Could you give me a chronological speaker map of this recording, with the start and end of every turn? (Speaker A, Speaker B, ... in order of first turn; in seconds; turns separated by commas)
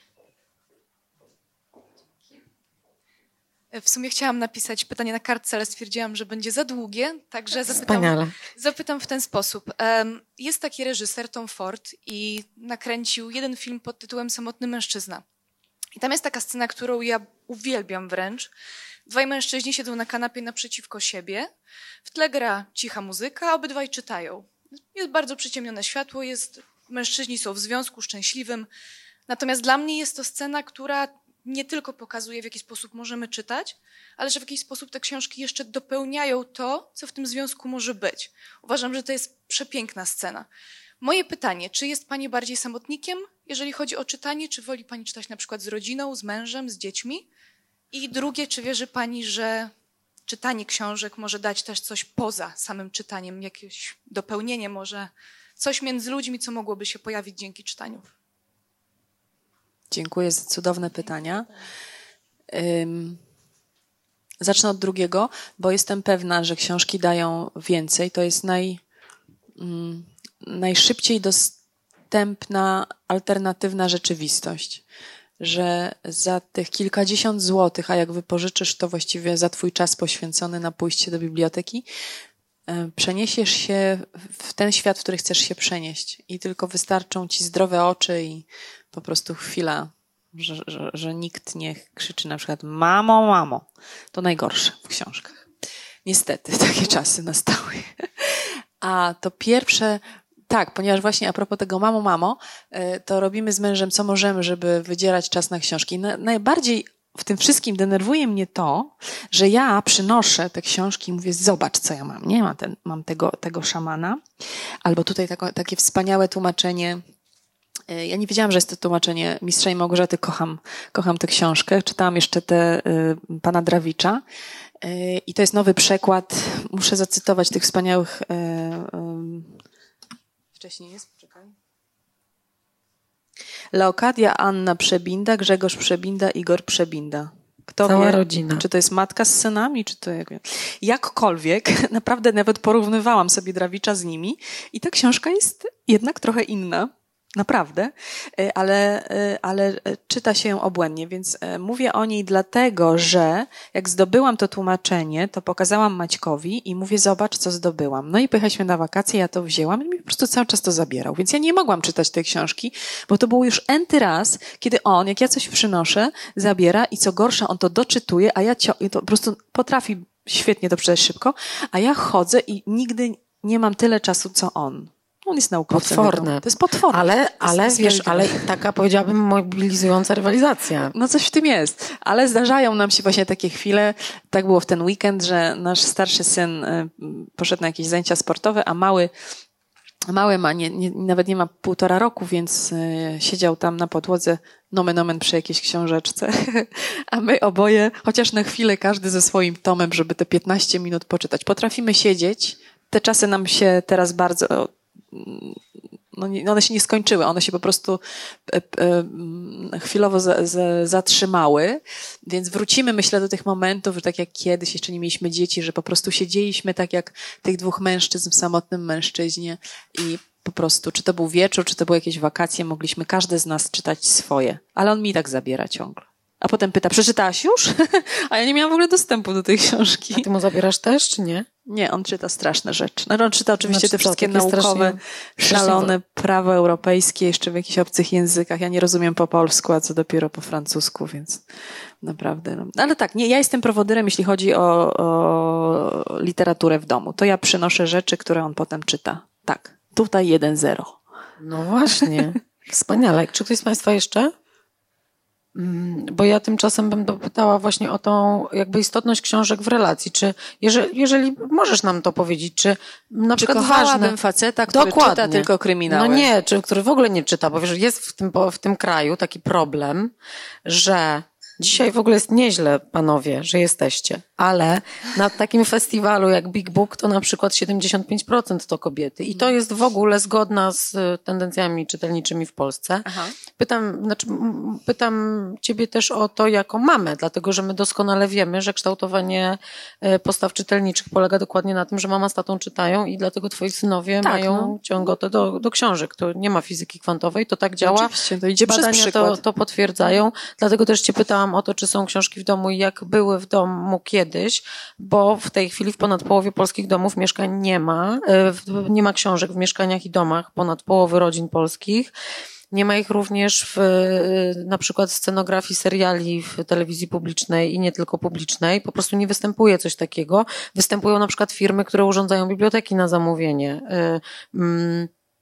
Speaker A: 3.7-15.2, Speaker B: 7.7-8.3, Speaker A: 15.9-18.5, Speaker A: 19.1-21.5, Speaker A: 22.0-28.7, Speaker A: 29.3-40.5, Speaker A: 41.0-47.2, Speaker A: 47.9-49.7, Speaker A: 50.2-58.1, Speaker C: 59.9-61.5, Speaker C: 62.5-63.2, Speaker C: 64.4-68.8, Speaker C: 69.6-71.5, Speaker C: 72.1-74.8, Speaker C: 75.4-81.8, Speaker C: 82.7-95.4, Speaker C: 96.0-114.2, Speaker C: 114.8-117.0, Speaker C: 117.9-124.2, Speaker C: 124.8-129.6, Speaker C: 130.5-131.5, Speaker C: 133.7-178.5, Speaker B: 137.8-138.6, Speaker B: 175.7-180.9, Speaker C: 180.9-189.1, Speaker C: 190.1-205.6, Speaker C: 206.1-230.3, Speaker B: 230.1-231.4, Speaker C: 231.7-241.4, Speaker B: 233.6-235.9, Speaker C: 242.0-251.0, Speaker B: 251.4-254.3, Speaker B: 255.5-264.1, Speaker C: 263.4-266.3, Speaker B: 264.7-270.1, Speaker B: 270.6-283.1, Speaker C: 283.1-283.3, Speaker B: 283.6-298.1, Speaker C: 294.2-294.8, Speaker C: 297.8-299.4, Speaker B: 298.6-312.1, Speaker B: 312.7-325.1